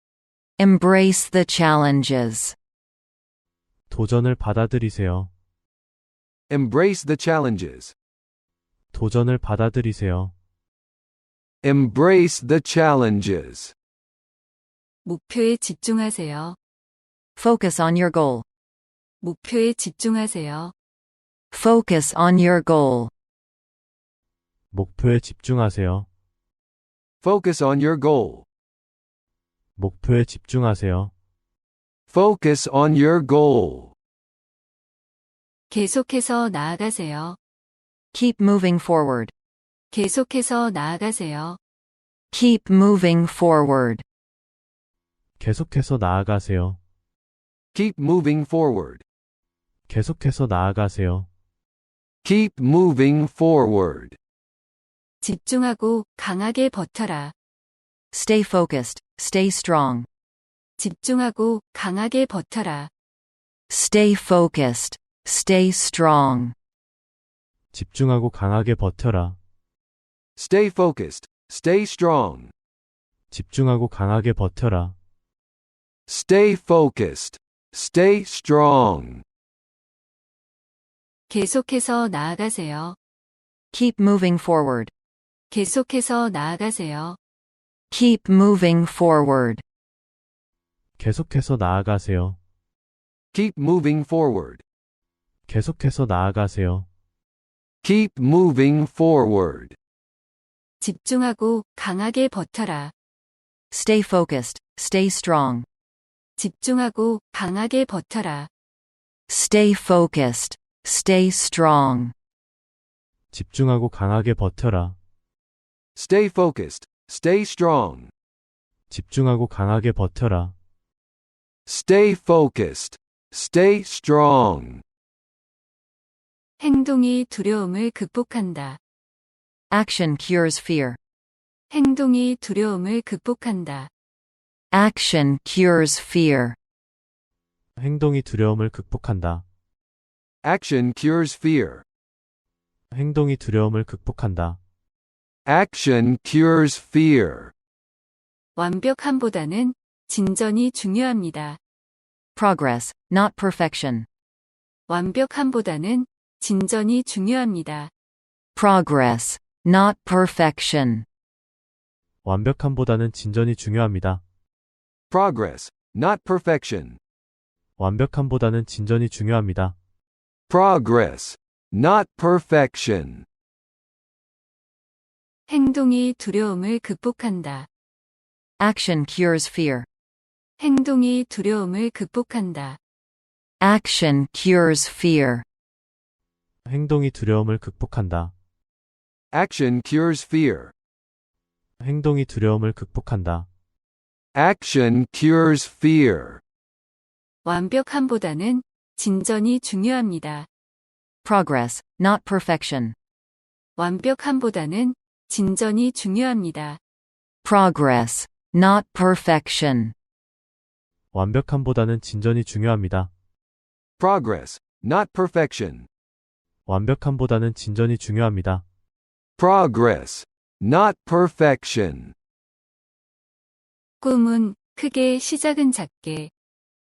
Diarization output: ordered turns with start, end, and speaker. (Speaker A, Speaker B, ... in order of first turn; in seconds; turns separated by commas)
Speaker A: 0.6-2.5, Speaker B: 3.9-5.3, Speaker C: 6.5-7.9, Speaker B: 8.9-10.3, Speaker C: 11.6-13.7, Speaker D: 15.0-16.6, Speaker A: 17.4-18.4, Speaker D: 19.2-20.7, Speaker A: 21.5-23.1, Speaker B: 24.7-26.1, Speaker C: 27.2-28.4, Speaker B: 29.8-31.1, Speaker C: 32.1-33.9, Speaker D: 35.7-37.4, Speaker A: 38.1-39.3, Speaker D: 39.9-41.6, Speaker A: 42.3-44.0, Speaker B: 45.4-46.8, Speaker C: 47.7-49.0, Speaker B: 49.9-51.3, Speaker C: 52.2-54.2, Speaker D: 55.2-57.3, Speaker A: 58.1-60.1, Speaker D: 60.8-62.9, Speaker A: 63.7-66.5, Speaker B: 67.7-69.4, Speaker C: 70.4-72.5, Speaker B: 73.3-74.9, Speaker C: 76.1-79.2, Speaker D: 81.3-83.0, Speaker A: 83.7-84.9, Speaker D: 85.5-87.2, Speaker A: 87.9-89.6, Speaker B: 91.0-92.4, Speaker C: 93.3-94.6, Speaker B: 95.5-96.9, Speaker C: 97.8-99.8, Speaker D: 100.8-102.9, Speaker A: 103.7-105.7, Speaker D: 106.4-108.5, Speaker A: 109.3-112.1, Speaker B: 113.3-115.0, Speaker C: 116.0-118.1, Speaker B: 118.9-120.5, Speaker C: 121.7-124.8, Speaker D: 126.6-128.8, Speaker A: 129.7-131.0, Speaker D: 131.7-133.9, Speaker A: 134.7-136.6, Speaker B: 137.8-139.4, Speaker C: 140.4-141.8, Speaker B: 142.9-144.6, Speaker C: 145.5-147.5, Speaker D: 148.6-151.6, Speaker A: 152.3-154.1, Speaker D: 154.9-157.9, Speaker A: 158.6-161.1, Speaker B: 162.2-164.2, Speaker C: 165.1-167.0, Speaker B: 167.8-169.8, Speaker C: 170.5-173.2, Speaker D: 175.5-177.7, Speaker A: 178.6-179.9, Speaker D: 180.6-182.8, Speaker A: 183.6-185.4, Speaker B: 186.7-188.3, Speaker C: 189.3-190.7, Speaker B: 191.8-193.5, Speaker C: 194.3-196.4, Speaker D: 197.4-200.5, Speaker A: 201.2-202.9, Speaker D: 203.8-206.8, Speaker A: 207.4-209.9, Speaker B: 211.1-213.1, Speaker C: 214.0-215.9, Speaker B: 216.7-218.6, Speaker C: 219.4-222.1, Speaker D: 224.0-226.3